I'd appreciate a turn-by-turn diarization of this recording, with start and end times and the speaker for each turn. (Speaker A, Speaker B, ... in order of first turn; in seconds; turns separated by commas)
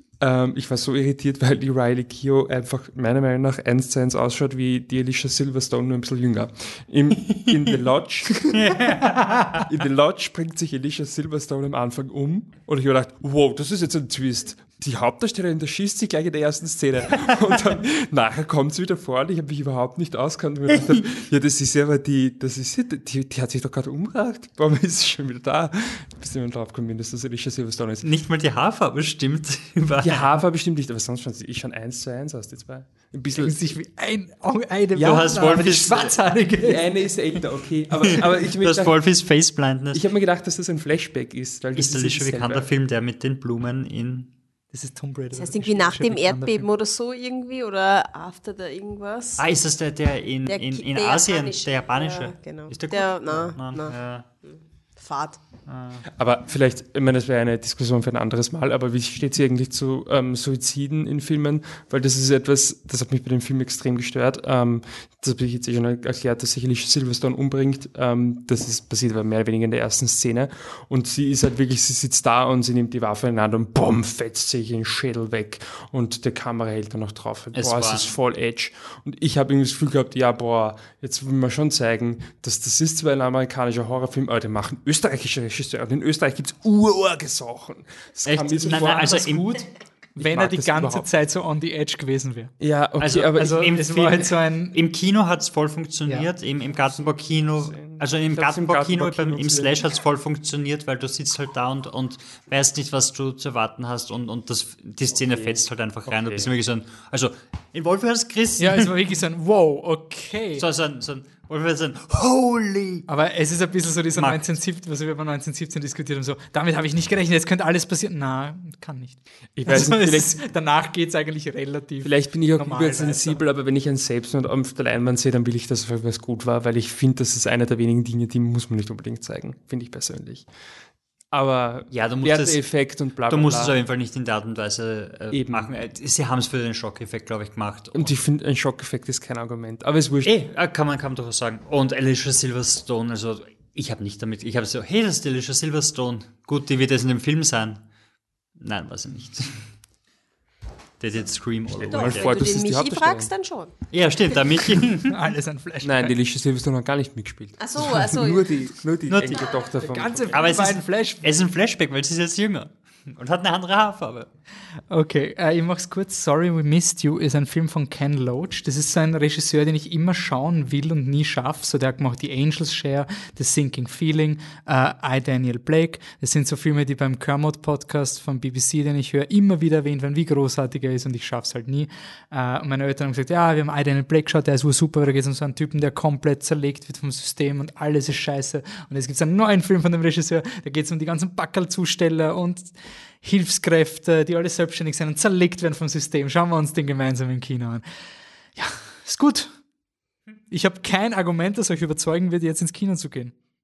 Speaker A: 0.2-8.8, Speaker B: 8.5-9.6, Speaker A: 9.7-28.1, Speaker B: 28.0-30.4, Speaker A: 30.0-33.6, Speaker C: 33.4-36.9, Speaker B: 35.0-36.2, Speaker A: 36.6-39.0, Speaker B: 38.6-40.0, Speaker A: 39.9-42.7, Speaker B: 41.8-44.3, Speaker C: 44.7-46.6, Speaker D: 45.4-49.4, Speaker B: 49.4-54.3, Speaker D: 50.5-55.4, Speaker B: 55.7-56.0, Speaker A: 56.1-89.3, Speaker B: 77.5-78.1, Speaker B: 88.2-89.6, Speaker C: 88.7-92.5, Speaker A: 90.2-91.1, Speaker A: 92.6-94.0, Speaker B: 93.0-108.9, Speaker C: 93.4-94.8, Speaker A: 96.8-99.8, Speaker A: 105.1-106.5, Speaker C: 108.6-110.7, Speaker B: 110.6-113.1, Speaker C: 113.1-123.4, Speaker B: 114.2-114.5, Speaker A: 119.6-120.4, Speaker A: 122.0-130.5, Speaker A: 131.3-133.8, Speaker B: 131.9-138.2, Speaker A: 135.3-135.7, Speaker A: 137.9-140.3, Speaker B: 140.2-147.8, Speaker B: 148.6-149.6, Speaker B: 151.0-152.3, Speaker A: 151.7-153.3, Speaker D: 151.9-153.7, Speaker B: 153.9-155.1, Speaker C: 155.1-156.1, Speaker A: 155.8-160.6, Speaker D: 157.6-158.5, Speaker B: 159.1-159.5, Speaker C: 159.8-161.3, Speaker B: 160.3-164.3, Speaker C: 164.9-197.8, Speaker C: 198.6-199.5, Speaker C: 200.5-203.3